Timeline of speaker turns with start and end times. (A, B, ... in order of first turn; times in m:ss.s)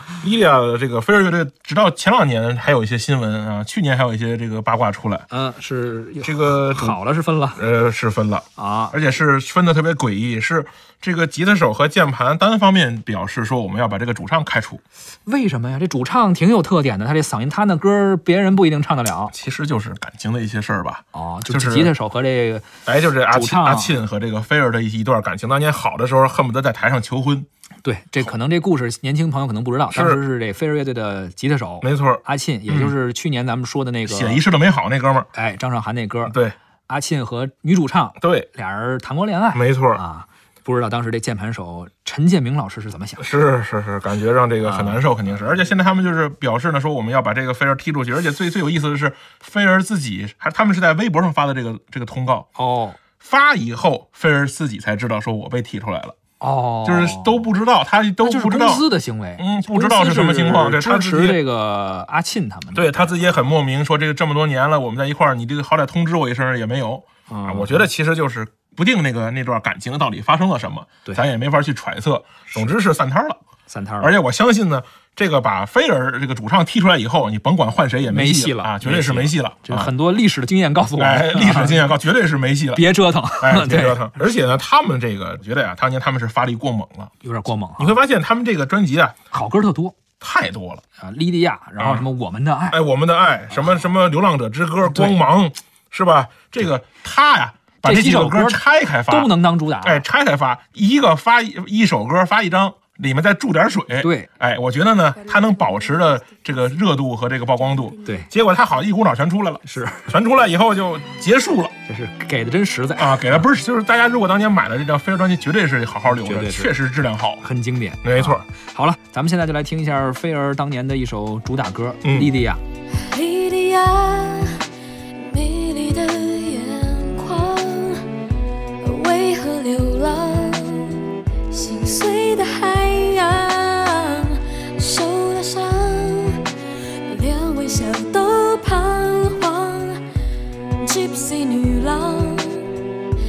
0:00.2-0:05.3 A
0:05.3-0:07.6 B
0:06.2-0:07.0 A
0:07.6-0:14.8 A
0:08.6-0:09.0 B
0:15.3-0:19.3 B
0:19.3-0:21.9 A
0:21.1-0:22.7 B
0:22.9-0:27.5 A
0:23.3-0:24.0 B
0:27.8-0:34.4 B
0:29.9-0:30.2 A
0:31.8-0:33.0 A
0:34.1-0:35.3 A
0:35.3-0:36.4 B
0:36.3-0:36.6 A
0:36.9-0:43.3 B
0:38.2-0:38.5 A
0:39.5-0:40.0 A
0:43.2-0:52.5 A
0:44.6-0:45.0 B
0:52.6-0:53.0 B
0:53.2-0:56.2 A
0:56.4-0:57.4 B
0:56.8-0:58.9 A
0:58.2-1:03.1 B
0:59.4-1:01.4 A
1:02.8-1:13.4 A
1:07.3-1:07.9 B
1:13.7-1:14.1 B
1:14.0-1:19.9 A
1:18.1-1:21.9 B
1:20.8-1:27.1 A
1:22.8-1:24.1 B
1:27.2-1:28.0 B
1:27.8-1:29.2 A
1:29.3-1:30.0 B
1:30.2-1:30.8 A
1:31.0-1:32.8 B
1:31.8-1:32.1 A
1:32.7-1:51.7 A
1:34.9-1:35.2 B
1:37.8-1:40.0 B
1:44.0-1:44.3 B
1:49.7-1:50.1 B
1:51.9-1:53.4 B
1:53.0-1:57.4 A
1:56.2-1:56.8 B
1:57.4-2:02.6 B
1:58.0-1:58.4 A
2:02.0-2:02.3 A
2:03.0-2:04.7 C
2:05.3-2:08.1 C
2:08.8-2:16.5 C
2:17.1-2:20.1 C
2:20.8-2:22.9 C